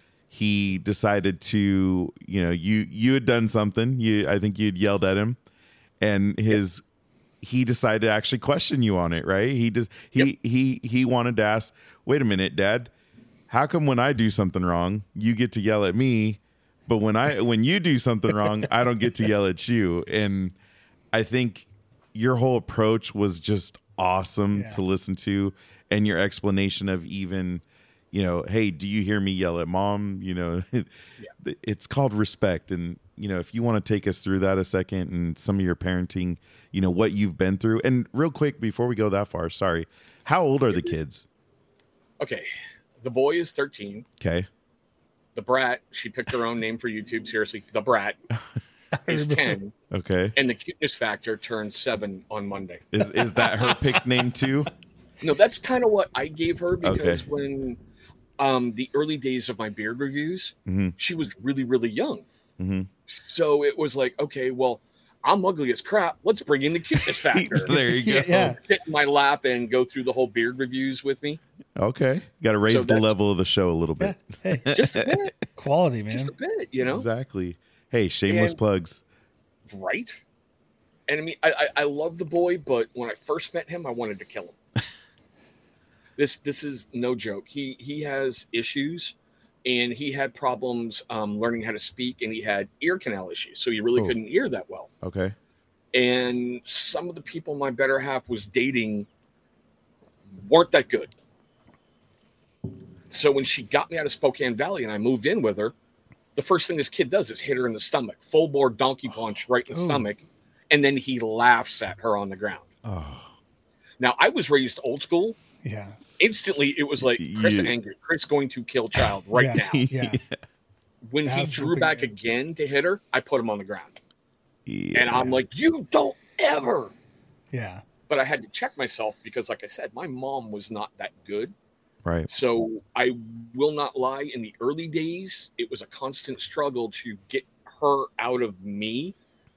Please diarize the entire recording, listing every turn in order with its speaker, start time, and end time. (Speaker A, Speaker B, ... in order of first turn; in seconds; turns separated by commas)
Speaker A: 0.3-5.4, Speaker A: 6.0-6.8, Speaker A: 7.4-12.9, Speaker A: 13.5-20.6, Speaker A: 21.1-41.3, Speaker B: 24.5-24.8, Speaker C: 42.2-42.5, Speaker C: 43.0-44.1, Speaker A: 44.2-44.5, Speaker C: 45.4-48.2, Speaker B: 48.9-49.6, Speaker C: 49.1-49.7, Speaker A: 49.9-50.4, Speaker C: 50.4-53.0, Speaker A: 52.9-54.7, Speaker C: 55.2-57.8, Speaker A: 56.8-57.2, Speaker C: 58.4-62.3, Speaker A: 60.7-61.0, Speaker A: 62.6-62.9, Speaker C: 63.1-71.4, Speaker A: 67.0-68.6, Speaker B: 67.7-68.6, Speaker A: 71.8-75.2, Speaker C: 72.7-73.1, Speaker B: 74.0-74.8, Speaker C: 74.7-75.4, Speaker B: 75.5-76.3, Speaker C: 76.1-77.1, Speaker A: 76.8-79.0, Speaker C: 78.3-78.6, Speaker C: 79.7-80.2, Speaker C: 81.1-84.6, Speaker C: 86.2-94.9, Speaker A: 95.0-95.3, Speaker C: 95.9-99.1, Speaker C: 100.4-101.1, Speaker C: 103.1-105.7, Speaker C: 106.4-112.7, Speaker B: 109.7-110.1, Speaker A: 112.8-113.3, Speaker C: 114.0-115.4, Speaker B: 115.6-116.0, Speaker C: 116.2-119.9, Speaker A: 117.2-117.7, Speaker B: 119.3-120.2, Speaker A: 119.6-120.3, Speaker C: 121.1-124.0, Speaker B: 121.3-122.1, Speaker A: 124.7-125.3, Speaker C: 124.9-126.9, Speaker B: 127.5-127.8, Speaker C: 128.1-131.5, Speaker C: 132.3-139.2